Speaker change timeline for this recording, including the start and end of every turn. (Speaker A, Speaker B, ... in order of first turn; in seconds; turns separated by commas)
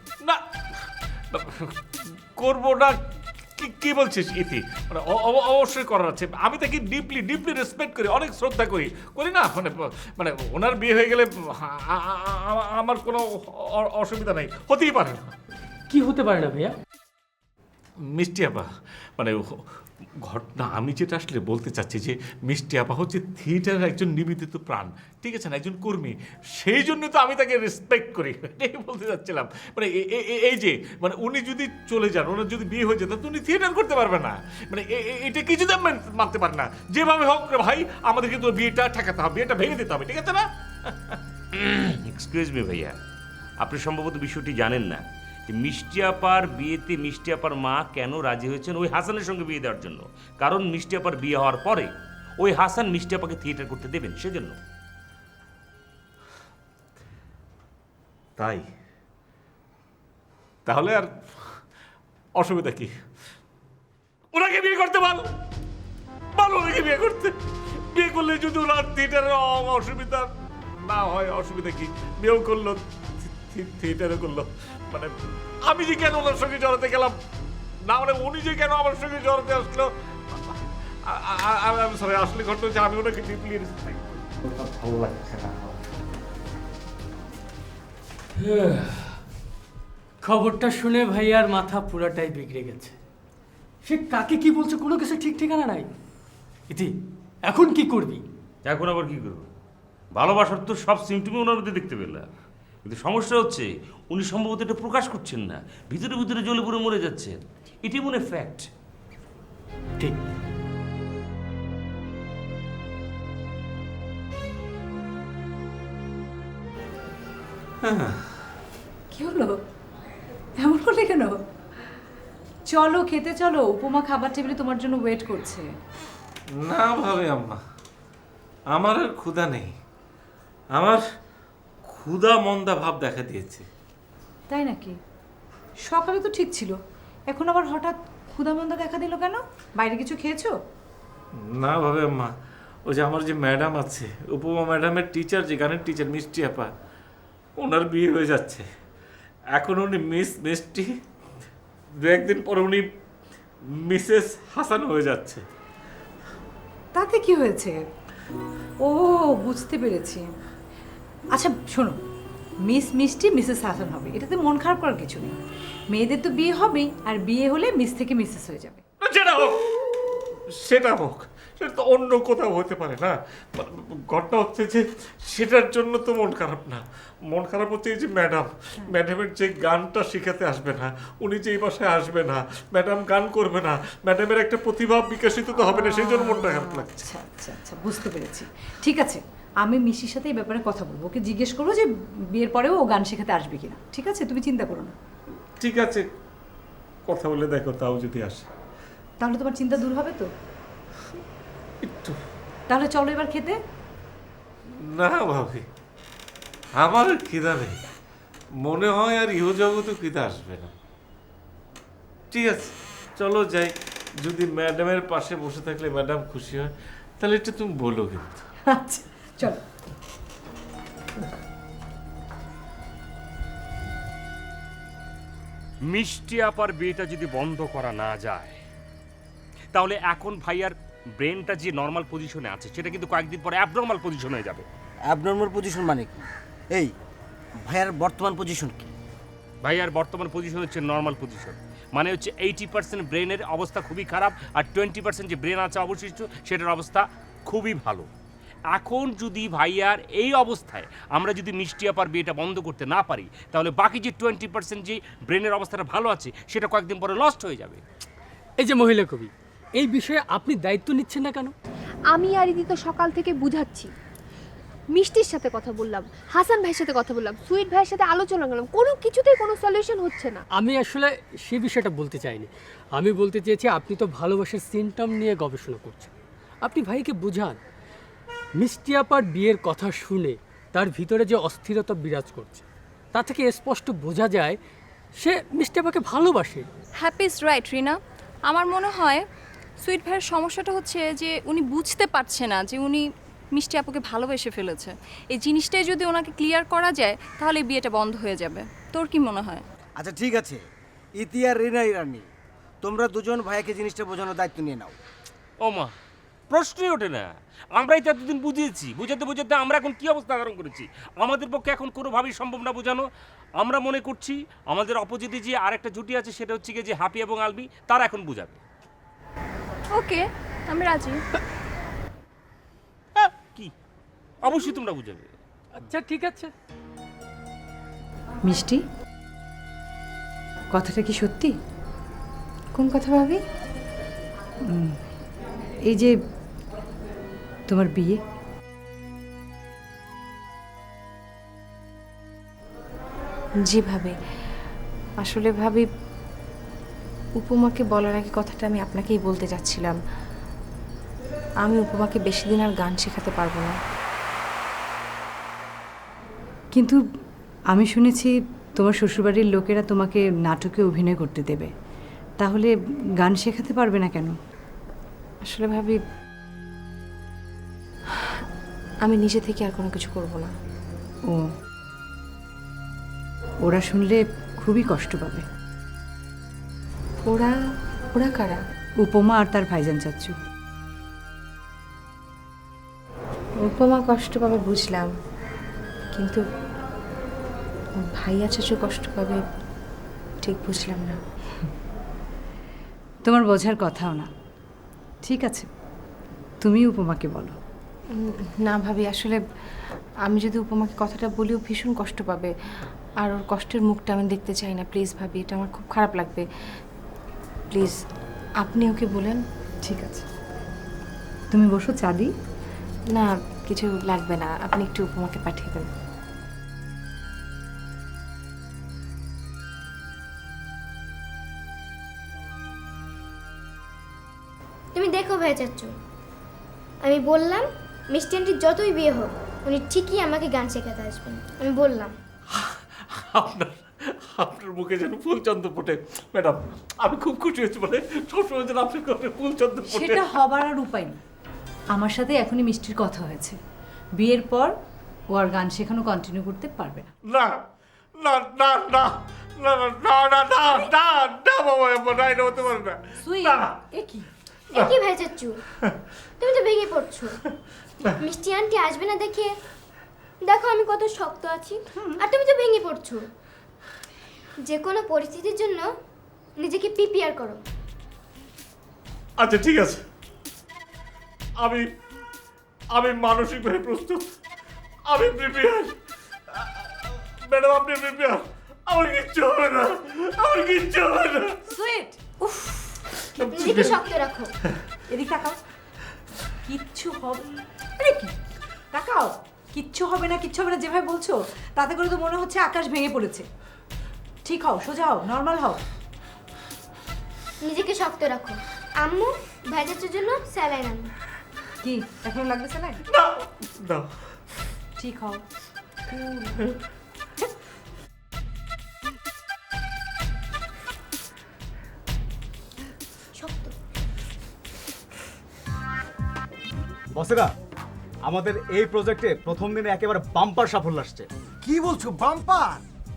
Speaker A: 1.3-1.8, Speaker A: 2.4-3.0, Speaker A: 3.6-15.3, Speaker B: 15.9-16.7, Speaker A: 18.1-19.6, Speaker A: 20.2-41.2, Speaker C: 41.5-43.0, Speaker C: 43.6-54.6, Speaker A: 58.4-58.6, Speaker A: 60.6-61.6, Speaker A: 62.4-62.9, Speaker A: 64.3-65.2, Speaker A: 66.3-67.3, Speaker A: 67.9-70.3, Speaker A: 70.9-75.1, Speaker A: 75.7-77.2, Speaker A: 77.9-84.2, Speaker B: 88.5-89.0, Speaker B: 90.2-93.0, Speaker B: 93.8-95.9, Speaker B: 97.5-98.2, Speaker C: 98.6-99.5, Speaker C: 100.1-102.3, Speaker C: 102.8-108.7, Speaker A: 117.8-118.3, Speaker D: 119.1-119.6, Speaker D: 120.6-121.4, Speaker D: 122.7-125.7, Speaker A: 126.6-127.6, Speaker A: 128.7-129.7, Speaker A: 130.7-131.0, Speaker A: 131.8-133.7, Speaker D: 134.5-135.0, Speaker D: 135.8-136.8, Speaker D: 137.3-140.5, Speaker A: 141.4-142.3, Speaker A: 142.9-146.7, Speaker A: 147.6-148.6, Speaker A: 149.5-150.9, Speaker A: 152.0-152.9, Speaker A: 153.8-155.4, Speaker D: 156.9-157.8, Speaker D: 158.8-160.2, Speaker D: 161.3-162.0, Speaker D: 162.7-165.4, Speaker D: 165.9-168.8, Speaker A: 169.0-169.9, Speaker A: 170.6-187.1, Speaker D: 185.6-194.9, Speaker A: 195.6-196.1, Speaker A: 197.1-198.5, Speaker D: 199.2-200.3, Speaker A: 201.8-202.2, Speaker D: 202.7-203.6, Speaker A: 204.8-205.6, Speaker A: 206.8-207.8, Speaker A: 208.6-210.7, Speaker A: 212.3-218.4, Speaker D: 218.7-219.6, Speaker C: 225.9-228.6, Speaker C: 229.7-234.6, Speaker E: 235.1-236.9, Speaker E: 237.7-238.9, Speaker C: 239.6-248.1, Speaker C: 248.7-257.8, Speaker B: 258.6-261.5, Speaker F: 262.1-263.9, Speaker F: 264.9-270.4, Speaker B: 270.5-276.1, Speaker B: 276.6-277.6, Speaker B: 278.6-284.6, Speaker B: 285.2-286.7, Speaker G: 287.0-289.2, Speaker G: 289.8-299.6, Speaker E: 300.0-300.6, Speaker E: 301.2-302.2, Speaker E: 302.8-304.9, Speaker C: 305.6-305.9, Speaker C: 306.5-313.1, Speaker C: 313.6-318.6, Speaker G: 319.9-321.2, Speaker C: 323.2-323.7, Speaker C: 324.4-325.3, Speaker B: 325.8-326.5, Speaker D: 328.4-328.8, Speaker D: 330.7-331.6, Speaker H: 332.7-333.4, Speaker D: 334.7-335.0, Speaker D: 337.7-338.2, Speaker H: 343.6-344.1, Speaker H: 345.2-345.9, Speaker H: 347.4-350.0, Speaker H: 351.6-353.8, Speaker D: 356.7-357.0, Speaker D: 357.7-361.7, Speaker D: 362.4-364.4, Speaker H: 365.4-366.0, Speaker H: 368.1-368.4, Speaker H: 369.0-370.5, Speaker D: 373.6-375.4, Speaker H: 377.2-377.5, Speaker H: 378.1-378.6, Speaker D: 379.0-380.3, Speaker H: 383.6-385.1, Speaker H: 386.1-386.4, Speaker H: 388.0-389.4, Speaker H: 390.4-391.2, Speaker D: 393.2-394.3, Speaker D: 395.2-395.7, Speaker D: 396.6-397.6, Speaker H: 398.1-399.4, Speaker H: 400.2-402.5, Speaker H: 403.2-406.4, Speaker H: 407.7-408.0, Speaker H: 408.6-409.4, Speaker D: 409.8-410.2, Speaker D: 411.5-412.3, Speaker H: 413.1-415.9, Speaker I: 424.9-425.9, Speaker I: 427.0-432.1, Speaker A: 432.5-440.3, Speaker D: 439.9-441.2, Speaker D: 441.9-443.6, Speaker D: 444.2-444.7, Speaker D: 445.3-447.1, Speaker A: 447.3-447.6, Speaker A: 448.2-453.8, Speaker D: 453.2-454.3, Speaker I: 454.7-455.6, Speaker I: 456.4-457.4, Speaker I: 458.2-459.5, Speaker I: 460.4-463.3, Speaker I: 464.6-465.9, Speaker I: 466.6-467.6, Speaker A: 469.4-470.0, Speaker A: 471.6-471.9, Speaker A: 472.9-474.2, Speaker A: 475.1-475.9, Speaker A: 476.5-481.6, Speaker D: 481.7-483.0, Speaker A: 483.3-484.1, Speaker I: 483.5-484.5, Speaker D: 485.1-485.6, Speaker D: 486.7-487.4, Speaker D: 488.0-488.3, Speaker D: 488.9-493.5, Speaker D: 494.4-495.8, Speaker I: 497.6-501.1, Speaker D: 501.8-503.0, Speaker A: 503.1-504.1, Speaker D: 505.0-505.4, Speaker I: 513.3-513.7, Speaker J: 517.1-517.5, Speaker J: 518.3-521.3, Speaker E: 521.6-522.8